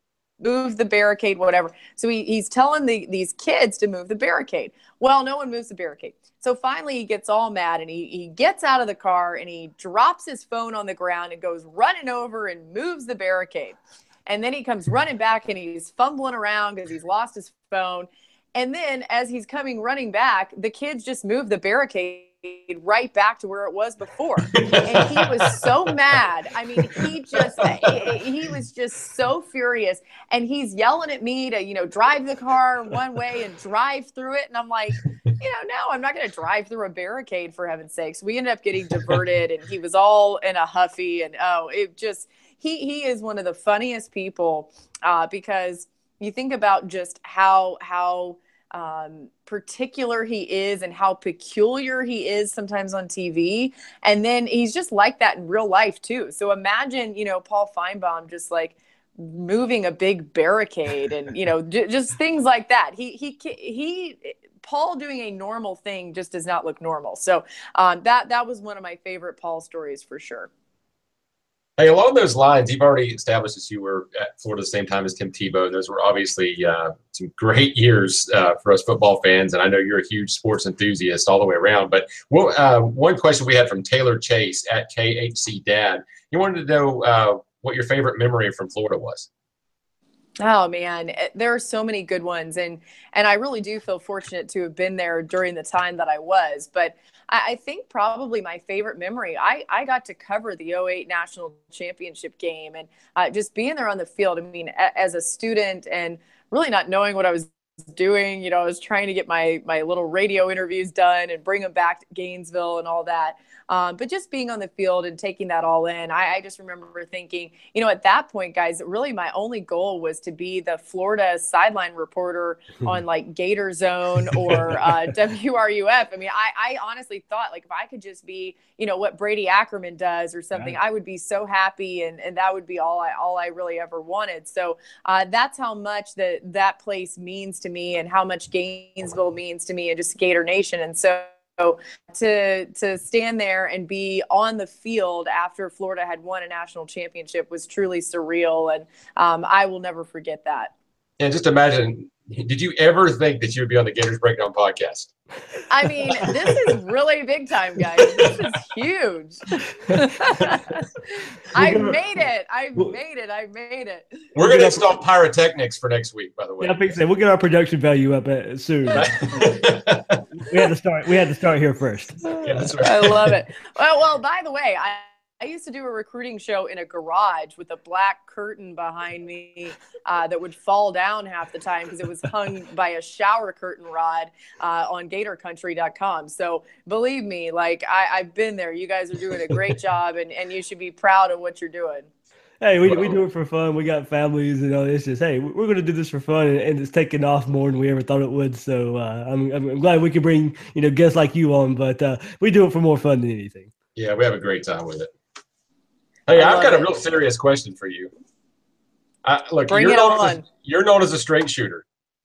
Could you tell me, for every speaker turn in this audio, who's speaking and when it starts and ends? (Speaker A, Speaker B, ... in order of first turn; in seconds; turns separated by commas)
Speaker A: 0.4-70.5, Speaker B: 24.5-25.6, Speaker B: 26.8-28.1, Speaker B: 71.8-89.3, Speaker A: 90.4-150.7, Speaker B: 151.2-155.1, Speaker A: 155.7-164.1, Speaker C: 161.6-162.0, Speaker B: 164.3-167.0, Speaker C: 164.4-164.9, Speaker C: 166.6-169.3, Speaker B: 168.9-170.2, Speaker C: 170.4-172.7, Speaker B: 172.4-173.2, Speaker A: 172.8-192.1, Speaker C: 192.6-203.7, Speaker B: 192.8-193.2, Speaker B: 203.9-205.1, Speaker B: 206.3-208.1, Speaker A: 206.3-206.9, Speaker B: 209.2-211.8, Speaker A: 209.7-210.4